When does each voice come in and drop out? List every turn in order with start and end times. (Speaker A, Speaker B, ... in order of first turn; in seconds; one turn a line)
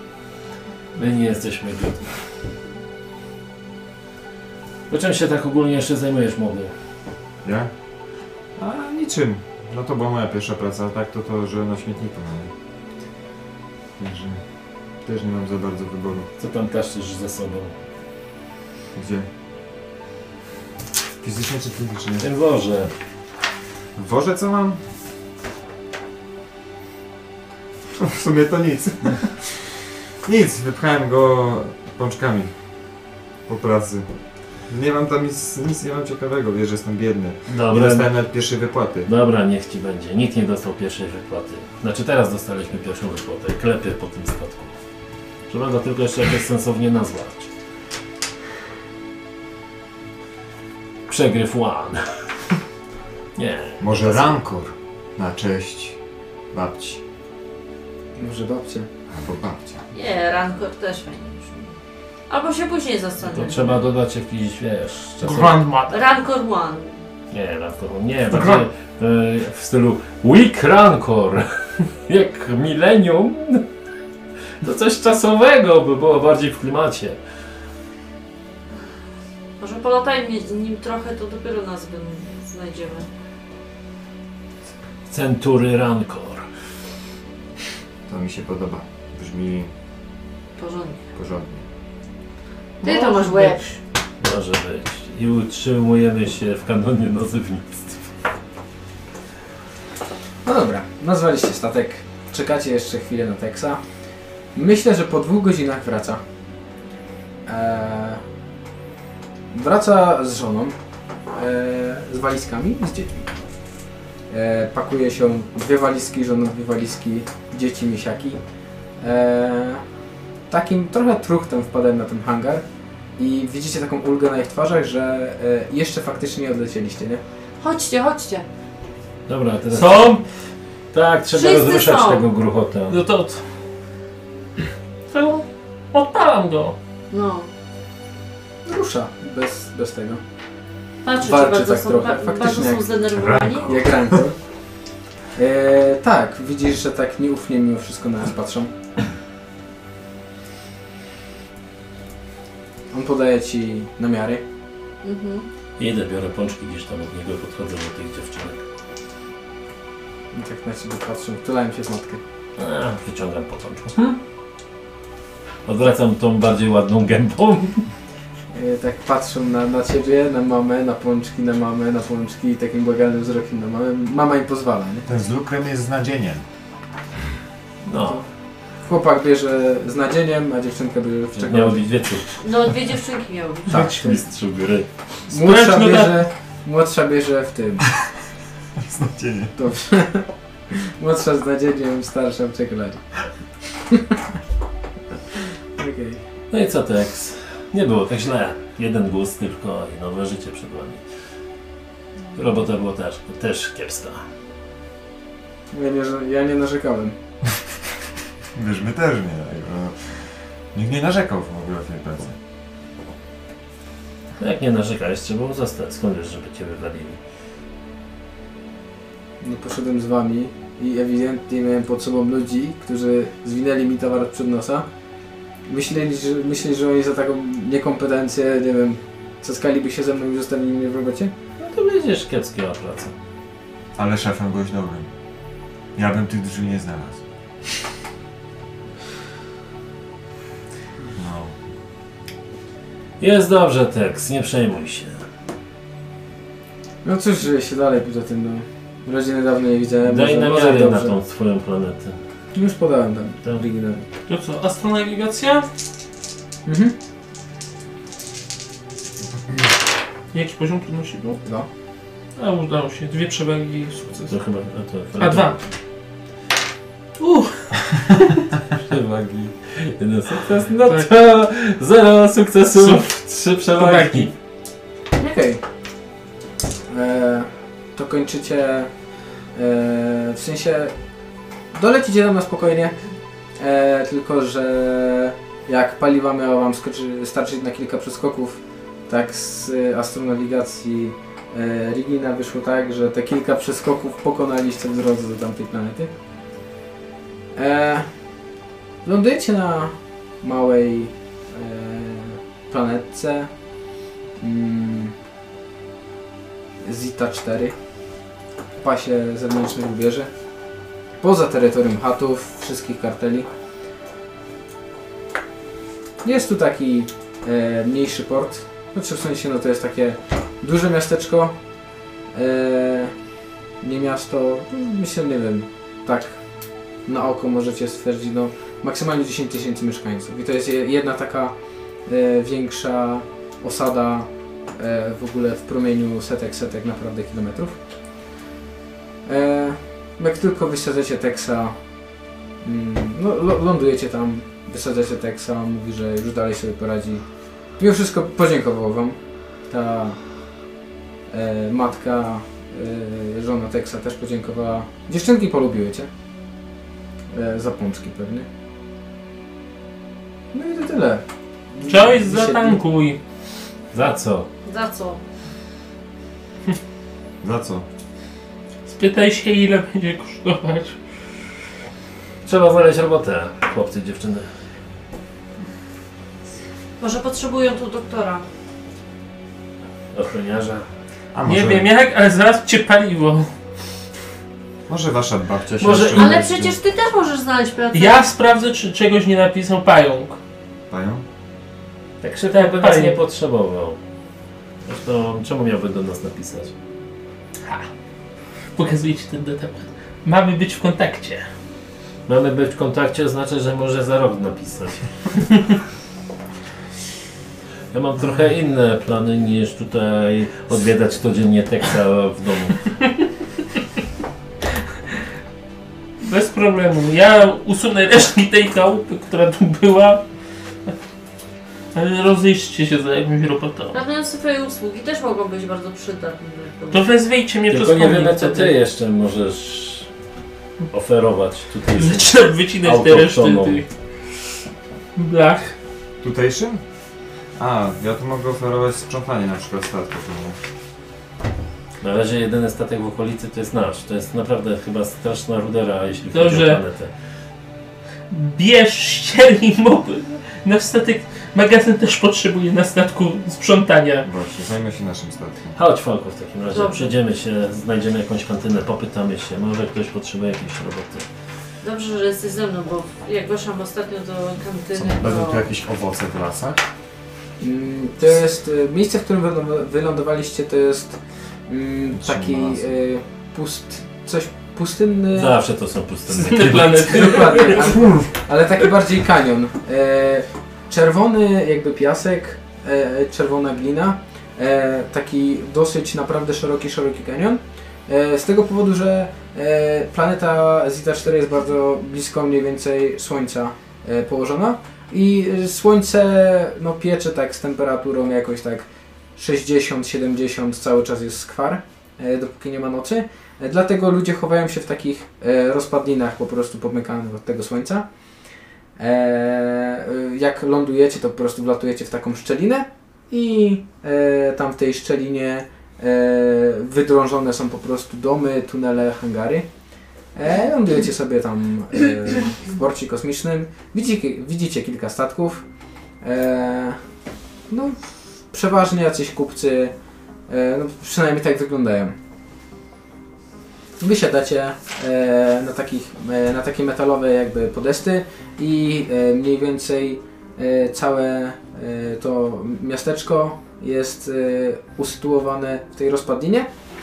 Speaker A: 0.9-2.1
Speaker A: 4.9-6.7
Speaker B: 7.4-7.7
Speaker B: 8.6-12.5
Speaker B: 14.0-14.4
Speaker B: 15.0-16.3
Speaker A: 16.4-17.7
Speaker B: 18.9-19.3
Speaker B: 21.2-22.3
Speaker A: 22.2-22.9
Speaker B: 23.9-24.8
Speaker B: 27.9-32.5
Speaker B: 33.5-34.1
Speaker B: 34.7-39.1
Speaker A: 37.5-38.1
Speaker A: 39.0-44.7
Speaker A: 45.5-47.5
Speaker A: 51.1-52.2
Speaker A: 53.4-54.4
Speaker B: 53.8-56.0
Speaker B: 56.5-57.0
Speaker C: 58.2-58.9
Speaker B: 59.1-59.8
Speaker D: 59.9-61.8
Speaker D: 62.3-63.8
Speaker A: 63.2-65.6
Speaker E: 65.2-66.0
Speaker D: 65.9-67.0
Speaker A: 67.3-73.7
Speaker A: 74.6-77.2
Speaker D: 79.6-83.1
Speaker A: 85.1-86.5
Speaker B: 88.1-89.7
Speaker D: 90.6-91.0
Speaker B: 91.1-91.6
Speaker D: 92.8-93.6
Speaker E: 92.8-93.8
Speaker A: 94.2-98.1
Speaker C: 100.4-103.8
Speaker C: 104.5-106.2
Speaker C: 107.5-108.2
Speaker C: 109.5-110.8
Speaker C: 111.3-113.3
Speaker C: 114.3-118.4
Speaker C: 119.0-119.8
Speaker C: 120.5-122.6
Speaker C: 123.2-127.2
Speaker D: 127.6-128.4
Speaker A: 129.3-130.2
Speaker E: 129.7-130.2
Speaker A: 130.9-133.0
Speaker D: 131.3-132.2
Speaker E: 132.9-133.4
Speaker E: 135.1-136.7
Speaker D: 137.1-137.5
Speaker C: 138.6-140.2
Speaker D: 141.0-143.8
Speaker C: 141.2-142.9
Speaker A: 143.2-143.6
Speaker C: 143.6-144.3
Speaker C: 145.3-148.7
Speaker C: 152.9-154.4
Speaker D: 155.0-155.5
Speaker A: 155.8-158.6
Speaker C: 160.3-162.2
Speaker A: 162.6-164.2
Speaker A: 165.6-167.8
Speaker C: 168.5-175.1
Speaker B: 175.1-176.4
Speaker A: 177.8-178.2
Speaker C: 177.9-178.2
Speaker C: 178.8-182.2
Speaker A: 181.3-182.3
Speaker D: 182.4-183.7
Speaker C: 183.7-184.2
Speaker A: 183.7-184.9
Speaker E: 185.3-186.2
Speaker C: 185.3-187.8
Speaker B: 188.8-189.5
Speaker C: 189.6-193.0
Speaker C: 193.9-194.2
Speaker C: 195.8-196.2
Speaker A: 196.5-201.0
Speaker A: 202.3-204.2
Speaker C: 205.7-207.1
Speaker B: 208.5-212.4
Speaker A: 214.4-217.2
Speaker C: 219.4-224.9
Speaker C: 225.7-231.3
Speaker A: 231.6-233.1
Speaker B: 233.9-235.1
Speaker B: 235.9-237.2
Speaker B: 241.1-241.5
Speaker A: 243.2-245.2
Speaker C: 247.0-251.2
Speaker A: 250.0-252.2
Speaker C: 252.5-254.0
Speaker E: 254.3-255.7
Speaker C: 256.6-256.9
Speaker E: 260.3-261.4
Speaker E: 262.4-264.4
Speaker A: 264.3-265.6
Speaker E: 265.2-265.6
Speaker E: 267.2-268.4
Speaker A: 268.8-274.3
Speaker E: 270.8-271.1
Speaker E: 272.8-273.1
Speaker E: 273.7-274.3
Speaker C: 275.2-275.6
Speaker C: 276.9-278.9
Speaker C: 279.5-280.9
Speaker C: 281.7-282.9
Speaker C: 283.6-296.1
Speaker C: 297.5-298.1
Speaker C: 299.0-303.5
Speaker C: 304.4-305.1
Speaker C: 306.8-307.7
Speaker C: 308.8-310.3
Speaker C: 311.2-313.5
Speaker C: 316.2-321.6
Speaker C: 322.3-323.1
Speaker C: 323.8-326.4
Speaker C: 327.0-337.8
Speaker C: 339.2-341.8
Speaker C: 342.6-347.2
Speaker C: 347.8-350.2
Speaker C: 351.3-356.1
Speaker C: 357.3-358.5
Speaker C: 360.5-362.8
Speaker E: 361.9-363.2
Speaker A: 363.9-364.5
Speaker D: 364.6-365.2
Speaker B: 367.4-367.8
Speaker E: 368.9-371.0
Speaker A: 372.4-374.5
Speaker D: 377.0-378.4
Speaker A: 380.1-380.9
Speaker B: 381.3-381.9
Speaker E: 381.4-383.5
Speaker B: 384.9-386.8
Speaker A: 385.8-386.5
Speaker D: 386.1-388.2
Speaker E: 387.9-390.4
Speaker B: 390.9-391.2
Speaker A: 392.2-394.0
Speaker E: 392.5-393.2
Speaker A: 394.8-396.7
Speaker E: 398.8-401.4
Speaker A: 402.3-405.1
Speaker A: 407.9-412.8
Speaker E: 416.2-420.2
Speaker E: 421.9-424.0
Speaker D: 423.9-427.1
Speaker E: 426.9-428.7
Speaker A: 427.7-430.1
Speaker A: 430.9-433.8
Speaker E: 431.9-433.9
Speaker E: 435.1-435.7
Speaker B: 436.2-436.8
Speaker B: 437.6-440.6
Speaker A: 442.0-447.1
Speaker E: 446.3-446.8
Speaker E: 448.3-454.3
Speaker B: 454.2-455.8
Speaker A: 455.7-461.2
Speaker D: 456.7-457.1
Speaker D: 461.8-465.6
Speaker B: 464.9-466.8
Speaker C: 467.6-475.6
Speaker B: 472.1-472.9
Speaker A: 475.3-477.3
Speaker E: 476.4-478.0
Speaker C: 477.0-508.1
Speaker C: 509.0-519.6
Speaker C: 520.3-525.6
Speaker C: 526.2-527.0
Speaker C: 527.7-528.0
Speaker C: 528.5-529.9
Speaker C: 530.5-532.1
Speaker C: 534.0-546.7